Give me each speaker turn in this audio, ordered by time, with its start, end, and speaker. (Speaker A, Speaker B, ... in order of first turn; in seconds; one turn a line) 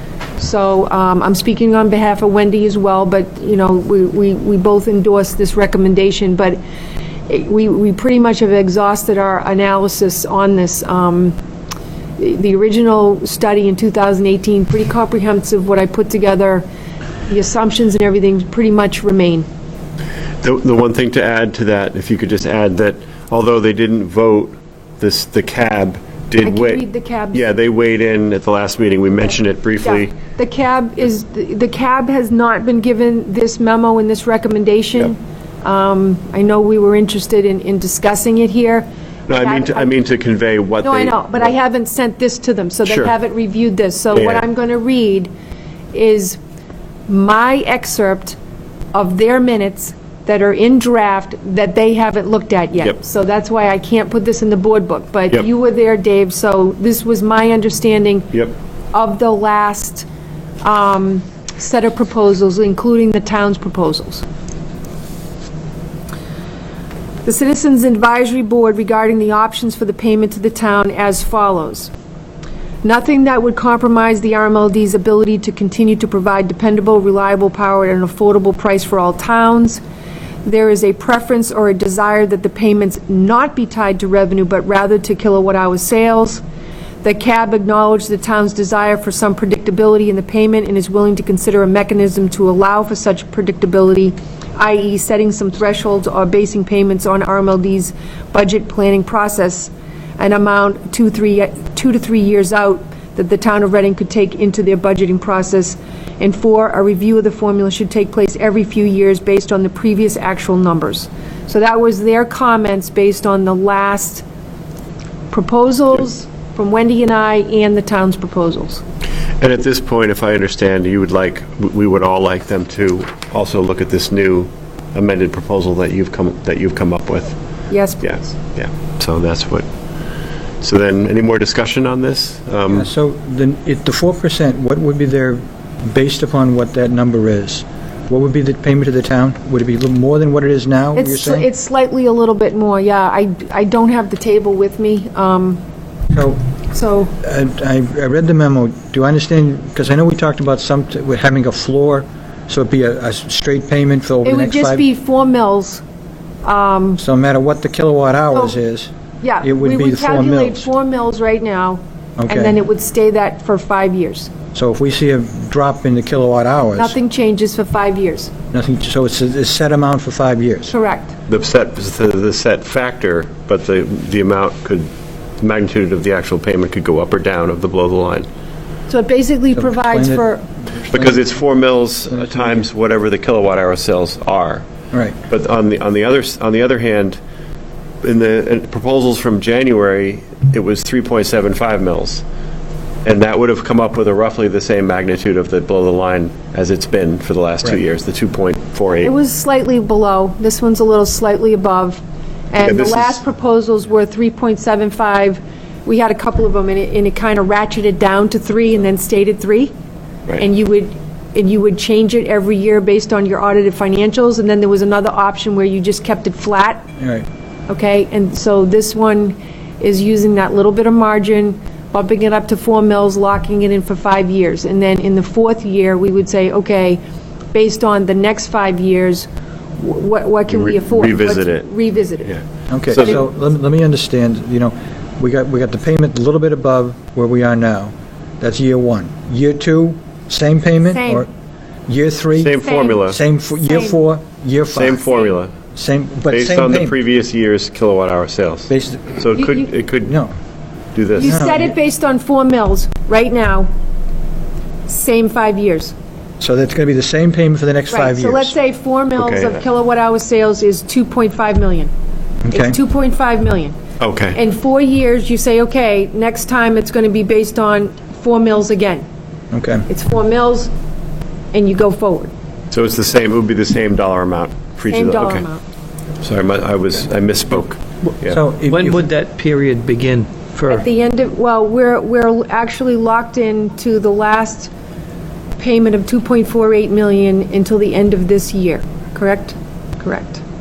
Speaker A: 0.4-6.6
Speaker A: 7.3-11.4
Speaker A: 12.2-16.7
Speaker A: 17.3-19.5
Speaker B: 20.4-30.2
Speaker A: 26.4-27.5
Speaker A: 29.8-39.9
Speaker B: 39.3-41.5
Speaker A: 40.8-45.3
Speaker B: 42.9-43.1
Speaker B: 44.1-44.5
Speaker A: 45.9-46.4
Speaker A: 47.1-48.4
Speaker A: 48.9-58.4
Speaker A: 58.9-60.1
Speaker A: 60.6-64.2
Speaker A: 67.2-71.9
Speaker A: 72.8-79.8
Speaker A: 80.4-86.4
Speaker A: 87.0-114.2
Speaker A: 115.3-118.8
Speaker B: 119.4-127.4
Speaker A: 127.7-128.3
Speaker B: 128.0-129.7
Speaker B: 130.6-132.9
Speaker C: 132.7-141.5
Speaker A: 140.9-145.6
Speaker C: 146.1-146.4
Speaker A: 146.7-147.1
Speaker C: 147.2-154.8
Speaker A: 154.2-155.8
Speaker A: 156.4-157.0
Speaker C: 157.0-160.7
Speaker A: 159.2-164.3
Speaker C: 162.2-162.6
Speaker C: 164.5-167.0
Speaker A: 166.8-168.3
Speaker C: 168.5-170.7
Speaker A: 170.7-171.2
Speaker B: 171.3-174.9
Speaker B: 175.4-178.3
Speaker A: 178.9-180.5
Speaker C: 179.6-181.2
Speaker B: 180.9-184.7
Speaker C: 182.1-182.6
Speaker C: 184.9-185.2
Speaker B: 185.3-187.2
Speaker B: 188.0-192.2
Speaker B: 193.0-199.1
Speaker A: 199.0-209.7
Speaker B: 202.6-203.2
Speaker A: 210.3-216.9
Speaker C: 217.0-217.3
Speaker A: 217.7-227.0
Speaker A: 227.5-232.4
Speaker B: 230.5-231.7
Speaker B: 232.2-233.2
Speaker C: 232.7-241.3
Speaker A: 240.9-241.3
Speaker C: 241.9-245.1
Speaker B: 242.4-243.2
Speaker A: 242.6-243.0
Speaker A: 243.7-244.0
Speaker B: 244.8-245.5
Speaker C: 245.7-246.9
Speaker B: 246.3-250.2
Speaker C: 248.7-249.2
Speaker C: 250.1-250.3
Speaker B: 250.9-251.5
Speaker A: 251.2-253.7
Speaker C: 251.2-251.7
Speaker A: 254.9-255.9
Speaker C: 256.4-258.5
Speaker A: 257.9-261.9
Speaker B: 259.2-259.6
Speaker C: 262.4-262.8
Speaker A: 262.5-263.8
Speaker B: 264.0-264.4
Speaker A: 264.3-269.1
Speaker C: 269.5-269.9
Speaker A: 269.9-270.7
Speaker A: 271.5-272.3
Speaker B: 272.7-275.5
Speaker A: 274.9-275.6
Speaker B: 276.2-278.4
Speaker C: 278.2-279.0
Speaker D: 278.7-280.9
Speaker A: 280.7-284.7
Speaker A: 285.6-290.4